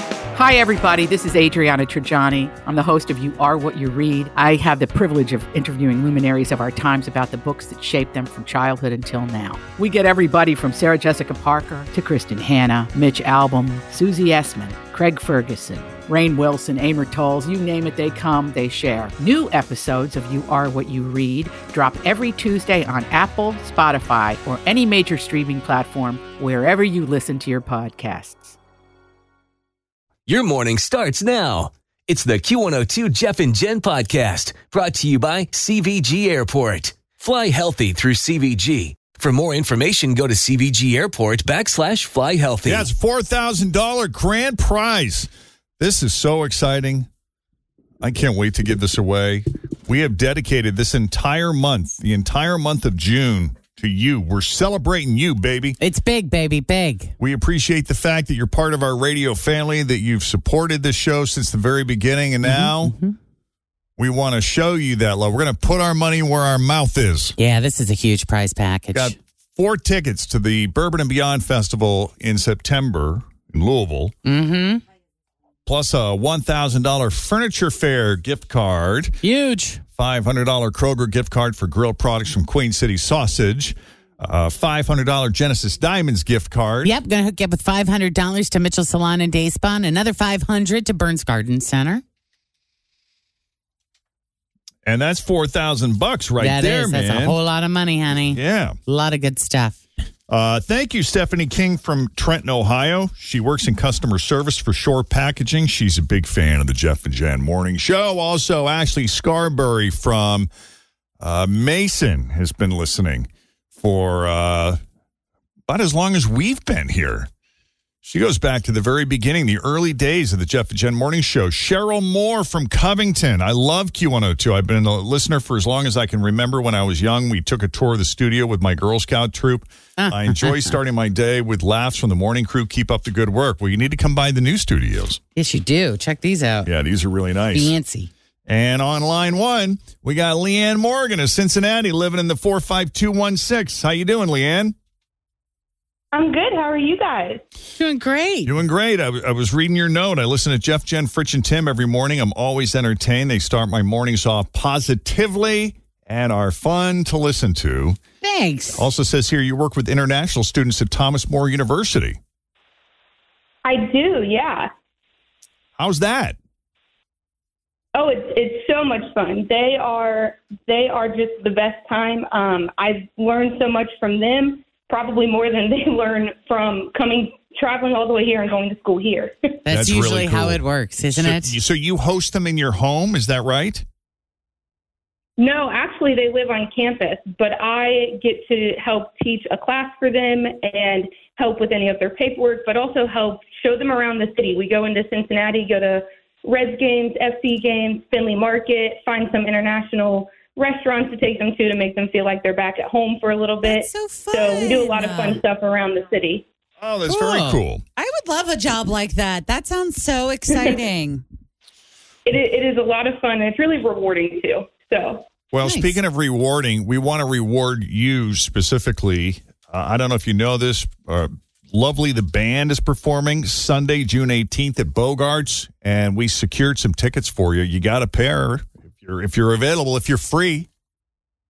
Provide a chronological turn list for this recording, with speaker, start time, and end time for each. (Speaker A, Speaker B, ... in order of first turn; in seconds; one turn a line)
Speaker A: 0.3-28.5
Speaker B: 30.3-42.9
Speaker C: 42.6-45.3
Speaker C: 45.8-47.1
Speaker C: 48.0-55.8
Speaker D: 55.8-57.1
Speaker C: 57.2-62.9
Speaker D: 62.4-63.1
Speaker C: 64.0-67.3
Speaker D: 67.4-69.2
Speaker C: 68.9-74.1
Speaker D: 74.2-74.8
Speaker C: 75.7-79.2
Speaker D: 79.2-79.8
Speaker C: 80.0-86.9
Speaker D: 86.8-92.0
Speaker C: 94.8-97.3
Speaker D: 96.4-99.8
Speaker C: 98.3-98.8
Speaker C: 100.3-110.5
Speaker C: 111.2-113.3
Speaker C: 113.8-114.8
Speaker C: 115.7-117.3
Speaker C: 118.0-135.2
Speaker D: 130.0-130.8
Speaker D: 135.3-136.7
Speaker C: 136.7-137.7
Speaker D: 137.5-138.1
Speaker C: 138.5-144.7
Speaker E: 146.1-147.4
Speaker D: 147.7-148.6
Speaker C: 148.4-158.0
Speaker D: 158.2-158.9
Speaker C: 158.8-162.2
Speaker E: 163.6-164.7
Speaker C: 165.8-166.4
Speaker E: 167.9-179.6
Speaker D: 179.7-181.6
Speaker C: 179.7-183.8
Speaker E: 185.4-206.4
Speaker F: 203.6-205.4
Speaker C: 206.8-207.8
Speaker D: 207.1-207.6
Speaker F: 207.9-211.2
Speaker E: 212.2-215.3
Speaker C: 215.5-230.7
Speaker D: 215.6-216.0